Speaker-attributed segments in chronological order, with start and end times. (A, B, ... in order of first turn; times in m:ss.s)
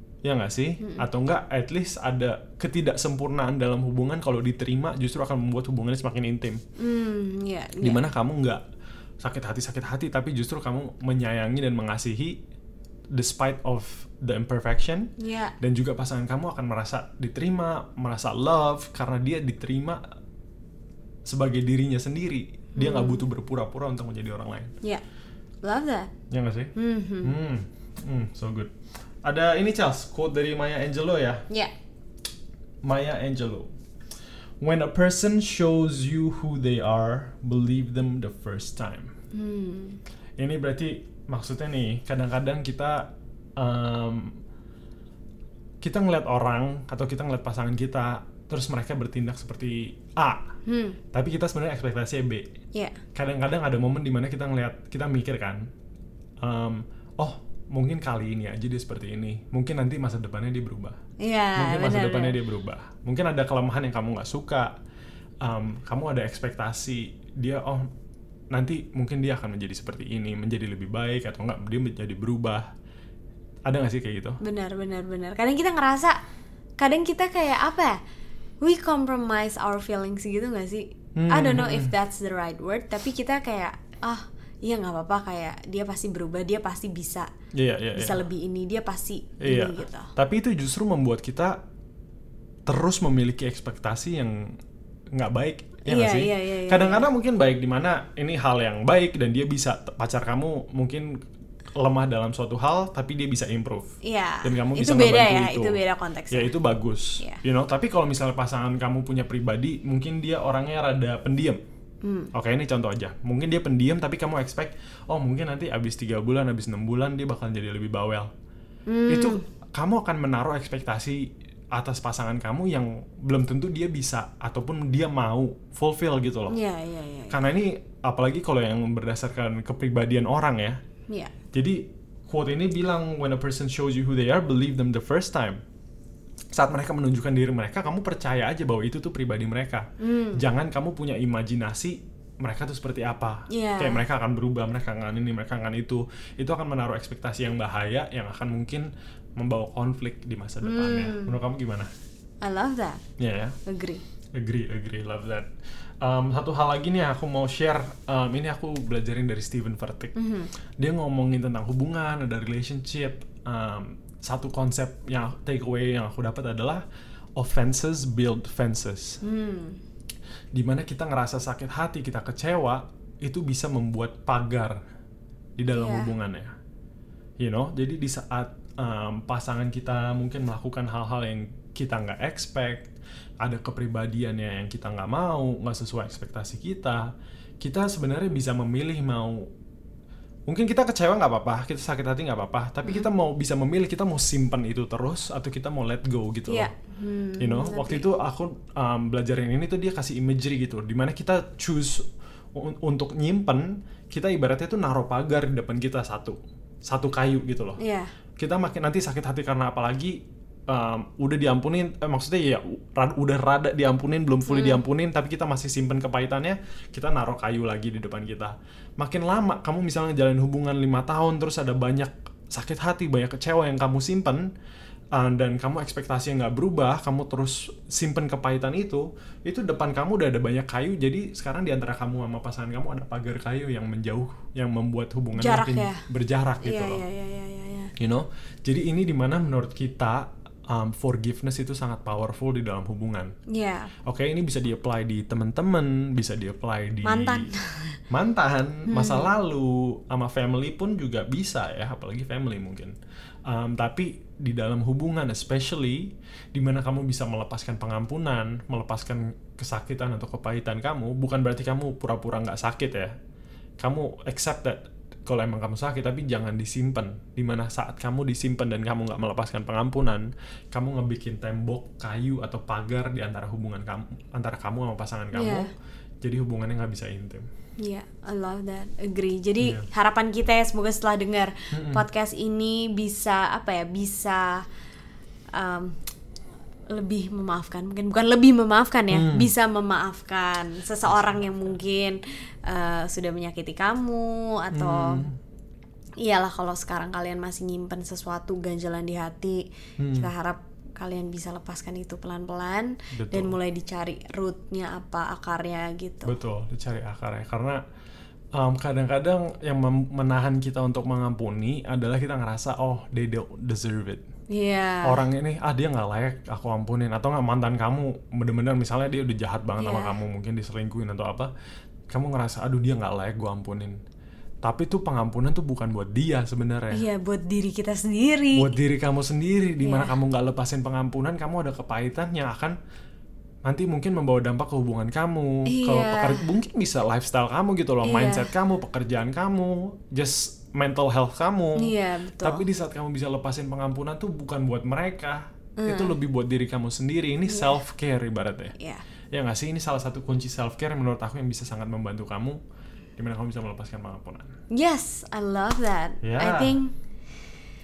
0:00.2-0:06.6 A
0:00.8-0:01.1 B
0:06.8-0:08.1 B
0:07.8-0:08.6 A
0:09.2-0:12.4 A
0:13.1-0:20.0 A
0:15.2-0:15.5 B
0:21.2-0:24.7 A
0:22.8-0:23.3 B
0:25.6-0:26.1 B
0:26.3-0:28.7 A
0:26.8-0:27.4 B
0:29.2-0:31.4 A
0:32.8-0:33.7 A
0:34.6-0:39.1 A
0:39.3-0:40.0 B
0:40.4-0:44.4 A
0:45.8-0:50.4 A
0:50.7-0:51.0 B
0:51.1-0:52.4 A
0:53.2-0:55.6 A
0:56.4-1:01.0 A
1:01.2-1:02.4 B
1:01.6-1:04.7 A
1:05.4-1:07.9 A
1:08.5-1:12.7 A
1:13.6-1:14.4 A
1:14.4-1:16.2 B
1:16.8-1:18.0 B
1:18.6-1:27.3 B
1:21.2-1:21.9 A
1:27.5-1:28.2 A
1:27.9-1:30.1 B
1:29.4-1:31.6 A
1:32.7-1:34.5 A
1:35.1-1:41.1 A
1:35.8-1:37.1 B
1:41.8-1:43.9 A
1:44.0-1:46.5 B
1:44.4-1:45.8 A
1:46.3-1:51.6 A
1:52.0-1:52.3 B
1:52.3-1:58.3 A
1:58.9-1:59.4 B
1:59.1-2:06.6 A
2:06.5-2:07.4 B
2:07.3-2:10.8 A
2:11.1-2:11.3 B
2:11.5-2:15.6 A
2:16.5-2:31.9 A
2:20.0-2:20.4 B
2:23.5-2:24.0 B
2:30.6-2:31.4 B
2:32.4-2:33.0 B
2:33.2-2:33.6 A
2:33.6-2:34.0 B
2:34.4-2:35.5 A
2:36.0-2:40.2 A
2:40.2-2:40.5 B
2:40.8-2:46.8 A
2:47.4-2:49.2 A
2:49.2-2:49.8 B
2:50.5-2:54.8 A
2:55.6-2:56.5 A
2:55.7-2:56.1 B
2:57.4-3:02.9 A
3:03.4-3:09.5 A
3:10.5-3:16.7 A
3:16.5-3:18.0 B
3:17.4-3:27.8 A
3:27.8-3:28.1 B
3:28.4-3:44.5 A
3:34.5-3:34.8 B
3:45.2-3:57.0 A
3:55.4-3:56.0 B
3:56.6-3:57.9 B
3:58.0-4:03.3 A
4:03.5-4:03.9 B
4:04.0-4:07.4 A
4:07.0-4:08.0 B
4:08.1-4:13.0 A
4:08.9-4:09.3 B
4:13.5-4:23.1 A
4:23.8-4:35.7 A
4:35.3-4:35.7 B
4:36.2-4:37.4 A
4:37.8-4:44.6 B
4:41.7-4:42.0 A
4:45.5-4:46.0 B
4:46.9-4:55.2 B
4:49.1-4:49.5 A
4:51.1-4:51.5 A
4:54.7-4:55.4 A
4:56.2-5:06.4 B
5:00.0-5:00.3 A
5:03.2-5:03.6 A
5:06.2-5:07.8 A
5:08.6-5:14.2 A
5:14.5-5:15.2 B
5:15.0-5:21.5 A
5:19.8-5:20.2 B
5:22.1-5:24.0 A
5:24.6-5:27.1 A
5:26.9-5:28.7 B
5:28.6-5:32.8 A
5:29.8-5:30.1 B
5:33.6-5:48.7 A
5:35.7-5:36.5 B
5:38.0-5:38.5 B
5:41.8-5:42.6 B
5:45.8-5:46.2 B
5:47.5-5:47.8 B
5:48.8-5:49.0 B
5:49.3-5:52.6 A
5:53.2-5:54.5 A
5:54.7-5:56.9 B
5:56.2-5:56.8 A